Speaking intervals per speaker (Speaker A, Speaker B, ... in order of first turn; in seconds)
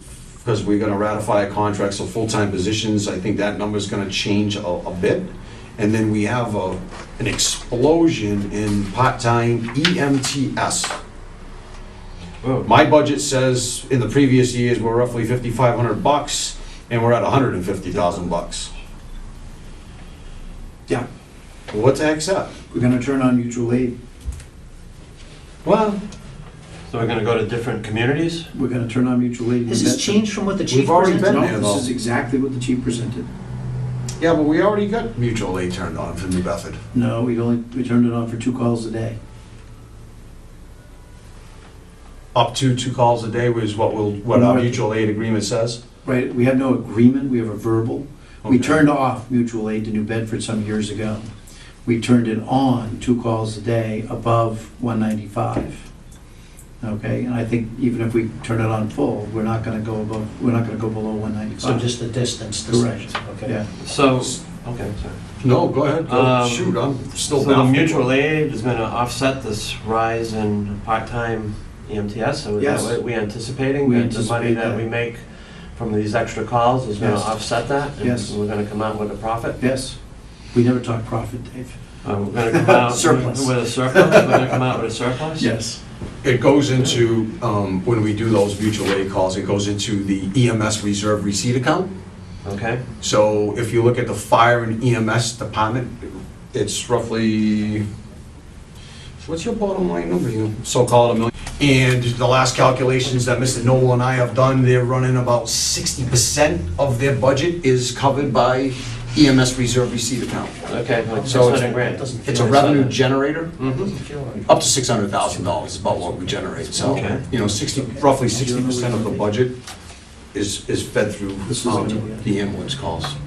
Speaker A: 0.4-11.0, 12.7-18.7, 21.7-22.5, 25.6-26.0, 30.7-31.9, 34.2-36.8, 42.3-45.8, 48.4-48.8, 65.4-68.0, 86.2-91.9, 93.0-97.9, 99.2-110.6, 111.2-113.5, 114.5-119.5, 120.3-123.2
Speaker B: 12.4-12.7, 26.9-28.5, 63.8-65.3, 66.0-79.6, 82.0-85.5, 92.4-92.8, 110.7-113.0, 113.6-113.9, 116.8-117.2
Speaker C: 22.7-23.9, 28.5-30.3, 31.0-33.3, 36.9-39.2, 44.3-44.8, 46.0-51.3, 51.9-55.9, 56.8-61.9, 62.7-63.7, 72.6-73.0, 73.8-74.8, 77.0-77.3, 78.0-78.3, 79.6-80.0, 80.5-81.8, 82.5-84.5, 85.4-85.8, 117.5-119.3, 121.5-122.3
Speaker D: 29.7-31.4, 61.6-63.6, 111.2-113.0, 113.6-114.6, 115.2-117.3